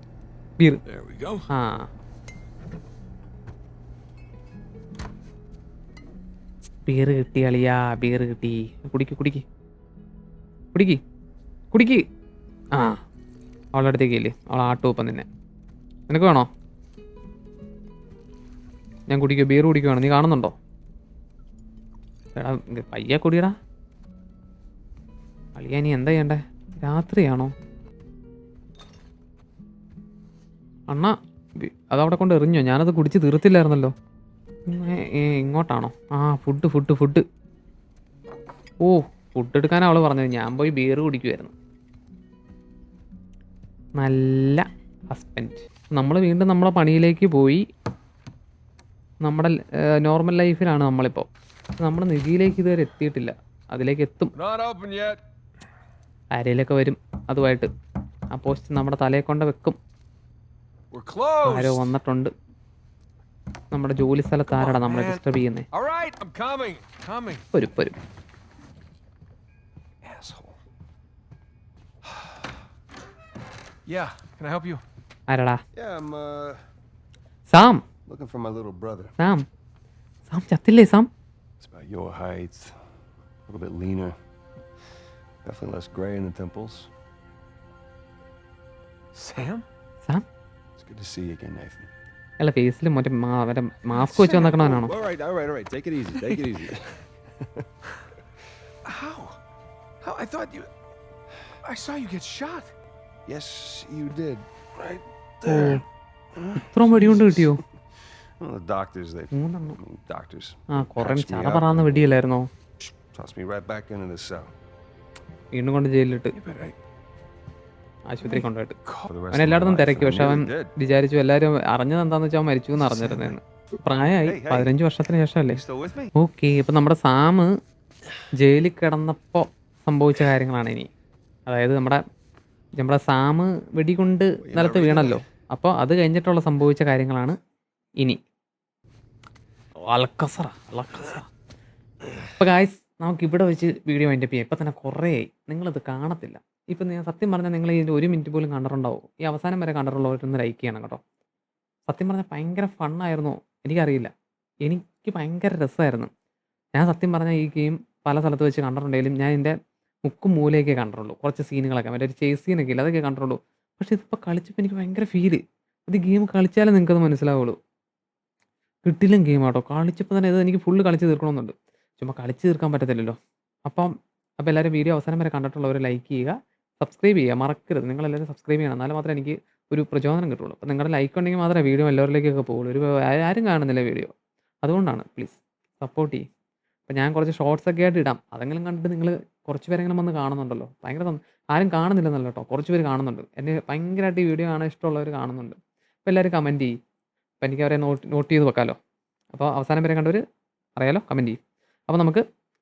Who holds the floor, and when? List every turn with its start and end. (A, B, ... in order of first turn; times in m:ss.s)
0:00.8-0:01.5 A
0:01.5-0:01.9 B
0:06.9-0:09.4 B
0:10.7-0:11.0 B
0:11.7-0:12.0 B
0:12.7-0:13.0 B
0:13.7-0:15.2 B
0:16.1-0:16.5 B
0:19.1-0:20.5 B
0:22.4-0:23.5 B
0:25.6-0:27.5 B
0:30.9-0:33.9 B
0:34.7-0:37.2 B
0:38.8-0:41.5 B
0:44.0-0:47.6 B
0:49.2-0:51.3 B
0:51.8-0:54.3 B
0:54.3-0:55.2 A
0:56.3-0:57.7 B
0:58.3-0:59.8 B
1:00.9-1:01.9 A
1:01.4-1:02.3 B
1:03.7-1:05.7 B
1:04.5-1:07.4 A
1:07.5-1:08.0 B
1:10.0-1:10.6 A
1:12.0-1:12.3 A
1:13.9-1:14.8 A
1:15.3-1:15.6 B
1:15.7-1:16.6 C
1:17.5-1:17.8 B
1:18.1-1:19.1 C
1:19.2-1:19.4 B
1:20.3-1:21.1 B
1:21.6-1:22.8 C
1:23.5-1:24.2 C
1:25.4-1:26.9 C
1:29.1-1:29.6 A
1:30.8-1:31.9 C
1:32.4-1:35.0 B
1:33.9-1:34.9 A
1:34.4-1:37.6 C
1:38.8-1:39.4 A
1:40.0-1:40.7 A
1:41.6-1:42.7 A
1:43.2-1:45.8 C
1:45.4-1:45.8 B
1:46.3-1:47.6 C
1:46.6-1:47.6 B
1:48.4-1:52.2 C
1:49.3-1:49.8 B
1:50.7-1:52.5 B
1:52.9-1:54.5 C
1:55.5-1:56.4 B
1:56.3-1:56.7 A
1:58.1-1:58.8 B
1:59.0-2:00.7 C
1:59.3-2:05.6 B
2:02.8-2:03.3 A
2:04.2-2:04.7 C
2:05.5-2:06.1 C
2:06.1-2:07.5 B
2:08.4-2:10.9 B
2:11.5-2:12.0 B
2:12.8-2:17.4 B
2:14.4-2:15.2 C
2:19.8-2:21.3 B
2:22.4-2:31.0 B
2:31.9-2:34.1 B
2:34.6-2:36.1 B
2:36.8-2:47.6 B
2:48.8-3:04.1 B
3:04.6-3:06.2 B
3:06.9-3:16.7 B
3:17.4-3:18.8 B
3:19.3-3:20.2 B
3:20.8-3:21.4 B
3:21.9-3:22.2 B